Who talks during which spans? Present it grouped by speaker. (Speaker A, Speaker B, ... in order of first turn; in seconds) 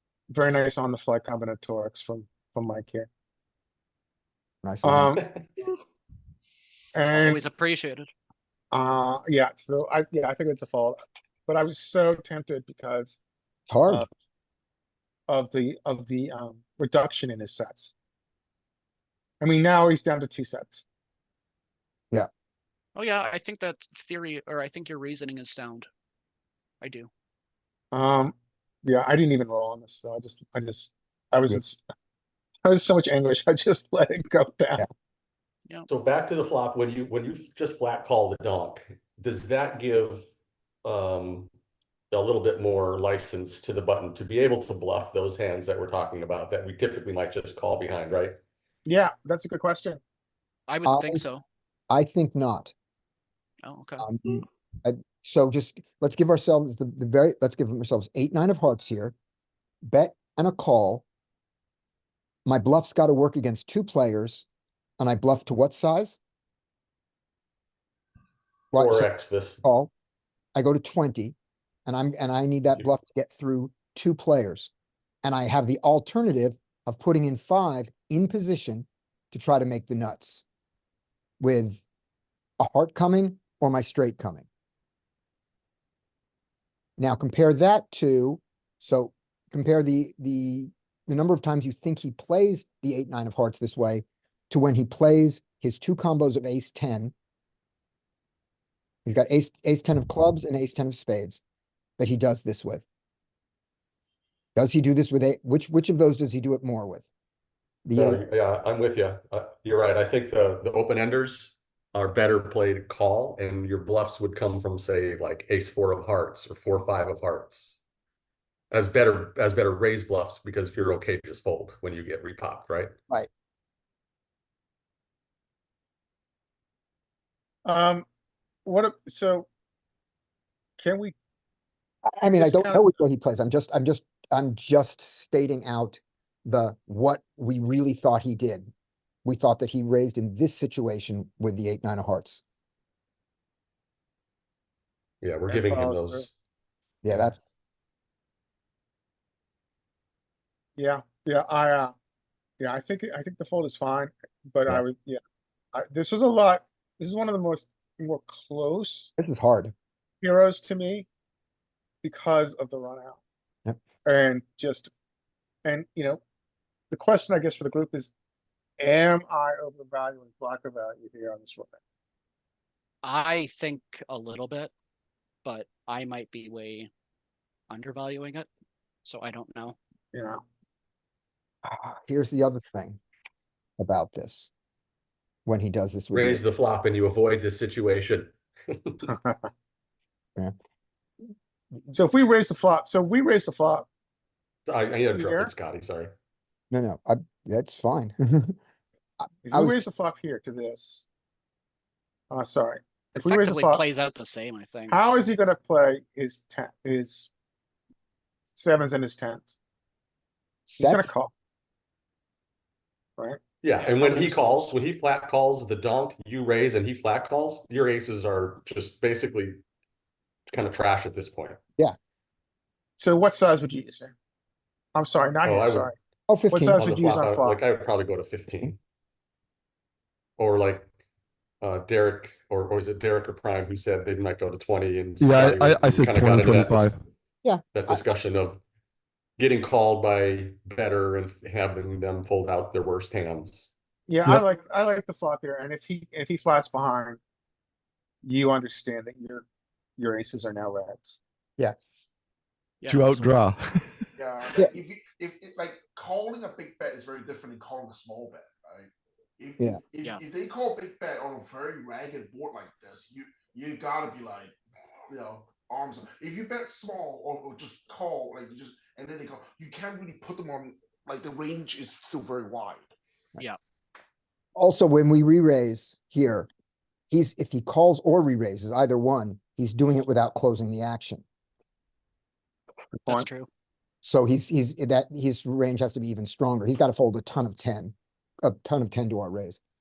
Speaker A: 0.3-3.1, 4.8-5.2, 6.9-7.4, 8.7-13.2, 15.3-17.9, 19.4-20.8, 27.9-31.8, 32.6-34.8, 48.8-50.0, 127.6-128.1, 128.7-129.5, 130.8-131.1, 132.3-132.9, 145.5-146.3, 150.8-151.9, 152.6-155.2, 155.7-159.1, 160.2-161.1, 162.0-163.2, 164.0-164.9, 165.6-166.2, 166.9-168.1, 168.8-171.8, 180.1-180.4, 189.0-189.5, 191.9-193.9, 195.1-195.5, 199.4-201.1, 202.3-203.8, 204.9-207.3, 208.5-209.5, 210.8-211.3, 223.0-224.1, 224.9-225.9, 226.5-227.6, 244.1-247.2, 248.2-249.4, 250.0-251.2, 283.0-283.3
Speaker B: 4.6-5.2, 13.7-14.0, 50.8-51.2, 51.9-52.7, 54.0-59.1, 59.8-61.0, 62.4-64.4, 65.0-66.2, 68.7-69.1, 69.6-69.9, 70.5-71.3, 71.8-74.7, 75.2-80.4, 81.4-81.8, 82.6-84.5, 87.0-97.1, 99.0-101.4, 102.0-102.9, 104.5-107.1, 107.8-108.2, 132.1-138.7, 139.2-142.4, 147.0-147.5, 159.2-159.7, 181.6-183.0, 183.8-184.5, 185.4-186.4, 196.7-198.6, 199.2-199.8, 210.7-211.1, 226.3-226.9, 237.4-238.0, 274.5-276.5, 277.1-281.2, 284.0-289.6
Speaker C: 7.1-8.1, 22.9-25.9, 26.8-27.1, 50.7-51.4, 53.6-54.0, 173.0-174.7, 175.4-176.9, 177.7-178.5, 179.0-179.8, 203.1-205.0, 213.8-214.6, 252.8-253.4, 283.1-283.5
Speaker D: 35.9-40.3, 40.8-41.5, 42.1-48.4, 68.7-69.6, 107.9-117.8, 118.7-122.9, 145.2-146.3, 186.1-189.0, 194.7-196.1, 213.6-219.6, 220.5-221.6, 225.4-225.9, 226.7-228.8, 230.4-230.9, 231.6-236.9, 237.7-238.6, 239.4-243.7
Speaker E: 235.2-237.0, 252.8-254.1
Speaker F: 254.2-264.6, 265.1-272.9